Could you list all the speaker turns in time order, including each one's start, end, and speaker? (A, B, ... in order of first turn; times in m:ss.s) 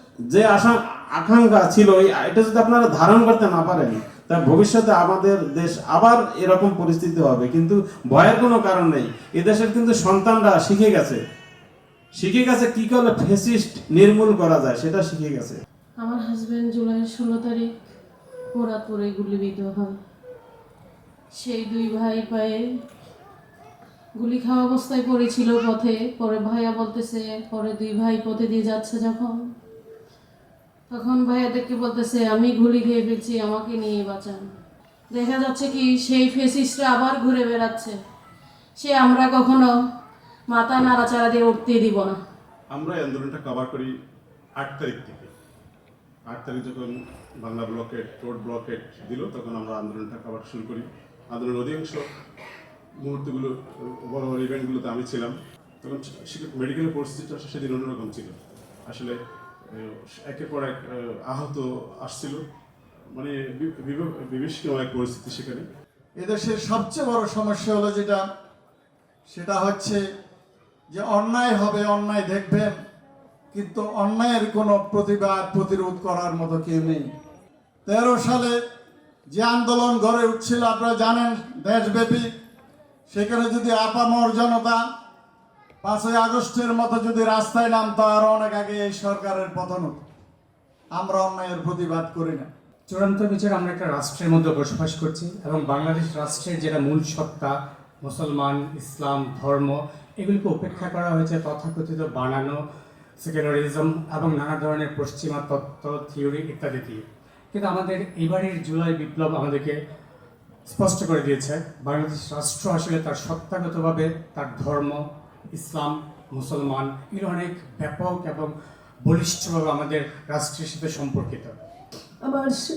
0:00.3-0:11.2 A
0:12.2-0:15.6 A
0:16.0-0:17.7 B
0:18.6-0:20.0 B
0:21.4-0:22.6 B
0:24.2-0:29.4 B
0:30.9-0:34.4 B
0:35.1-0:38.0 B
0:38.8-0:39.7 B
0:40.5-0:42.2 B
0:42.7-0:43.9 C
0:44.6-0:45.3 C
0:46.3-0:46.9 C
0:47.4-0:52.0 C
0:53.0-0:53.5 C
0:54.1-0:59.1 C
0:59.8-1:02.4 C
1:03.2-1:05.6 C
1:06.2-1:08.2 D
1:09.3-1:10.0 D
1:10.9-1:12.7 D
1:13.5-1:17.1 D
1:17.8-1:18.6 D
1:19.3-1:22.3 D
1:23.1-1:24.8 D
1:25.8-1:30.0 D
1:31.0-1:32.5 D
1:32.9-1:42.6 E
1:43.2-1:49.8 E
1:50.7-1:55.0 E
1:55.6-1:58.5 E
1:59.0-2:01.6 E
2:02.2-2:02.6 D